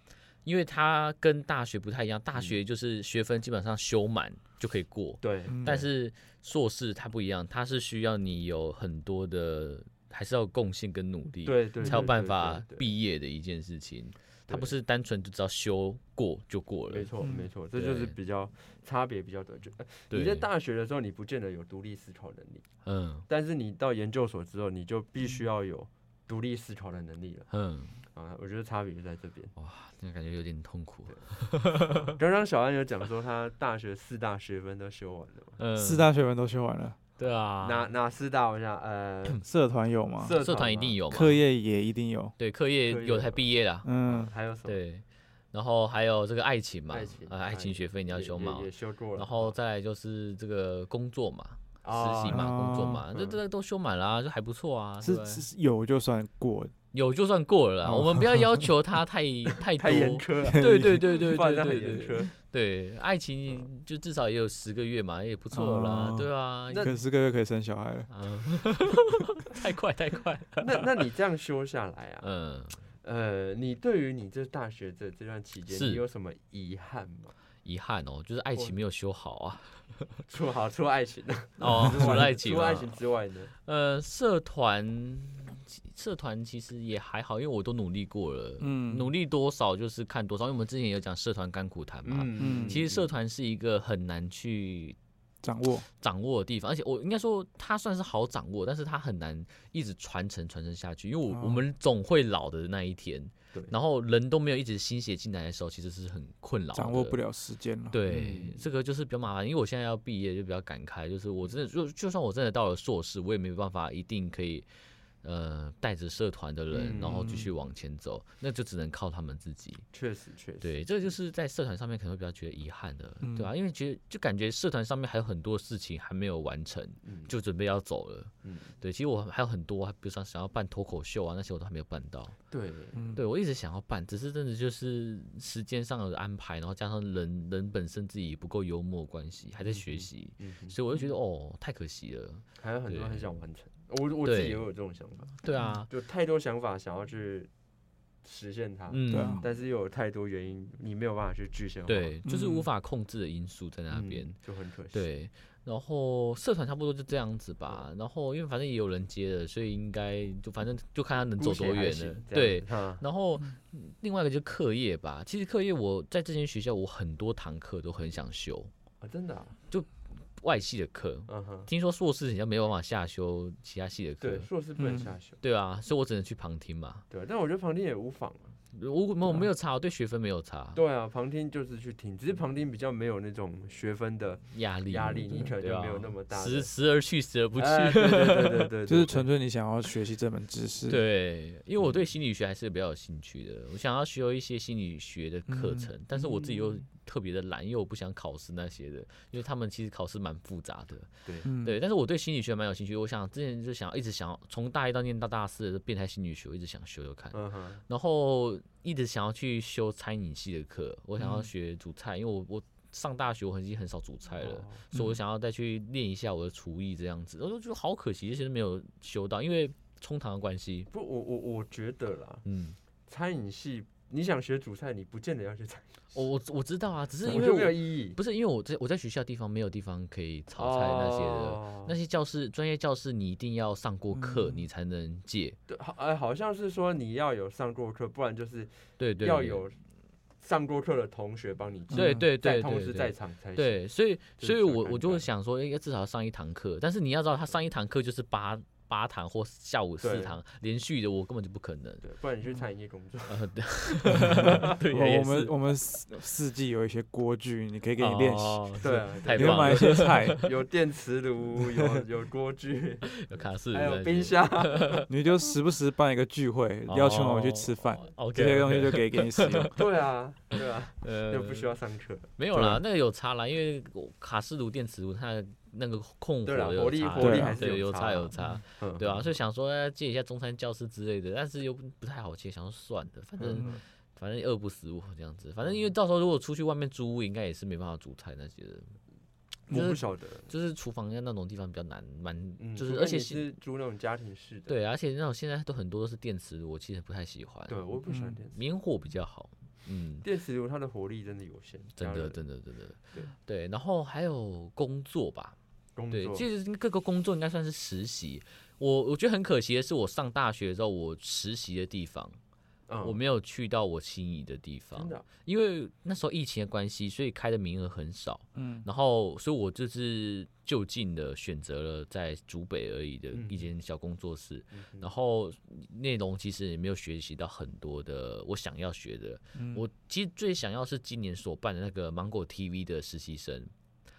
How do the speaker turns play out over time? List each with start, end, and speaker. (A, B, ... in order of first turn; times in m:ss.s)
0:00.4-0:17.1 A
0:05.2-0:05.6 B
0:05.5-0:05.9 C
0:11.4-0:12.9 B
0:11.8-0:12.1 C
0:16.9-0:22.7 B
0:17.2-0:17.5 C
0:17.7-0:18.1 A
0:20.1-0:20.5 A
0:22.8-0:23.2 A
0:23.3-0:27.5 B
0:27.5-0:28.0 A
0:28.0-0:29.5 B
0:29.6-0:32.1 A
0:31.9-0:35.6 B
0:35.6-0:36.0 A
0:35.8-0:37.0 C
0:37.2-0:37.9 A
0:37.6-0:39.4 B
0:39.4-0:40.4 C
0:40.2-0:41.0 B
0:40.4-0:41.4 A
0:41.1-0:42.3 C
0:42.4-0:43.9 A
0:42.8-0:43.5 B
0:43.8-0:44.3 C
0:44.0-0:44.8 B
0:44.6-0:55.4 A
0:46.9-0:49.5 B
0:51.8-0:53.4 B
0:52.3-0:53.0 C
0:55.0-0:56.7 C
0:56.9-1:06.9 A
0:57.8-0:58.7 C
0:59.8-1:02.3 B
1:00.4-1:01.0 C
1:05.5-1:08.1 C
1:06.7-1:07.0 B
1:08.1-1:10.8 A
1:10.6-1:12.3 B
1:12.2-1:12.8 A
1:13.0-1:17.3 B
1:15.7-1:16.0 A
1:17.6-1:20.1 A
1:20.3-1:23.5 B
1:21.6-1:23.0 A
1:23.6-1:35.0 A
1:28.6-1:29.1 C
1:32.0-1:33.0 B
1:32.4-1:32.8 C
1:35.4-1:35.9 C
1:36.0-1:47.2 A
1:41.3-1:41.6 C
1:46.7-1:48.0 C
1:47.9-1:54.7 A
1:48.1-1:48.6 B
1:55.2-1:59.8 A
1:56.7-1:57.5 B
1:57.1-1:57.4 C
1:59.9-2:00.8 B
2:00.6-2:12.4 A
2:03.2-2:03.5 C
2:07.0-2:07.3 B
2:08.4-2:08.7 B
2:12.5-2:13.0 B
2:12.9-2:13.2 C
2:13.1-2:23.3 A
2:19.6-2:21.1 B
2:22.6-2:25.4 B
2:24.2-2:24.6 A
2:25.4-2:25.9 A
2:25.9-2:27.5 B
2:28.2-2:32.2 B
2:28.9-2:29.5 A
2:29.1-2:29.4 C
2:31.9-2:34.4 A
2:32.2-2:32.7 C
2:33.9-2:35.0 B
2:34.9-2:48.7 A
2:41.4-2:43.0 B
2:49.0-2:49.6 B
2:49.7-2:54.5 A
2:51.3-2:51.7 B
2:54.2-2:55.4 B
2:54.8-2:55.1 C
2:55.4-2:57.0 A
2:57.1-2:58.6 B
2:58.7-3:00.8 A
3:00.7-3:06.7 B
3:04.5-3:08.7 A
3:07.5-3:09.3 B
3:08.9-3:11.0 C
3:10.9-3:40.9 A
3:15.5-3:15.9 C
3:16.1-3:16.8 B
3:21.2-3:21.5 B
3:21.4-3:21.8 C
3:27.3-3:27.8 B
3:31.2-3:31.4 C
3:34.4-3:34.8 B
3:34.9-3:35.2 C
3:40.9-3:42.4 B
3:42.4-3:42.8 A
3:43.1-3:46.0 B
3:46.1-3:55.6 A
3:47.2-3:48.2 B
3:50.6-3:52.0 B
3:54.2-3:54.6 C
3:55.7-3:59.8 B
3:59.0-3:59.6 A
4:00.4-4:05.3 B
4:01.9-4:02.2 C
4:01.9-4:12.0 A
4:10.0-4:10.4 B
4:12.0-4:13.4 B
4:13.3-4:15.5 A
4:14.1-4:14.6 B
4:14.2-4:20.4 C
4:18.0-4:20.4 A
4:18.8-4:25.0 B
4:23.1-4:25.1 A
4:25.1-4:29.7 C
4:26.9-4:29.7 A
4:29.7-4:32.3 B
4:31.0-4:31.7 A
4:32.4-4:48.9 A
4:32.5-4:32.8 C
4:36.4-4:39.4 B
4:37.2-4:37.6 C
4:43.4-4:43.8 B
4:45.6-4:45.9 B
4:49.7-4:50.5 B
4:49.7-4:53.5 A
4:52.6-4:54.8 B
4:54.7-4:57.8 A
4:57.7-4:58.6 B
4:58.1-4:58.4 C
4:58.5-5:00.2 A
5:00.2-5:02.4 B
5:02.0-5:05.6 A
5:06.0-5:06.4 B
5:06.1-5:12.4 A
5:12.9-5:13.2 B
5:13.0-5:33.7 A
5:15.0-5:15.2 B
5:18.5-5:18.8 C
5:23.3-5:23.7 B
5:24.7-5:25.1 B
5:29.5-5:29.8 C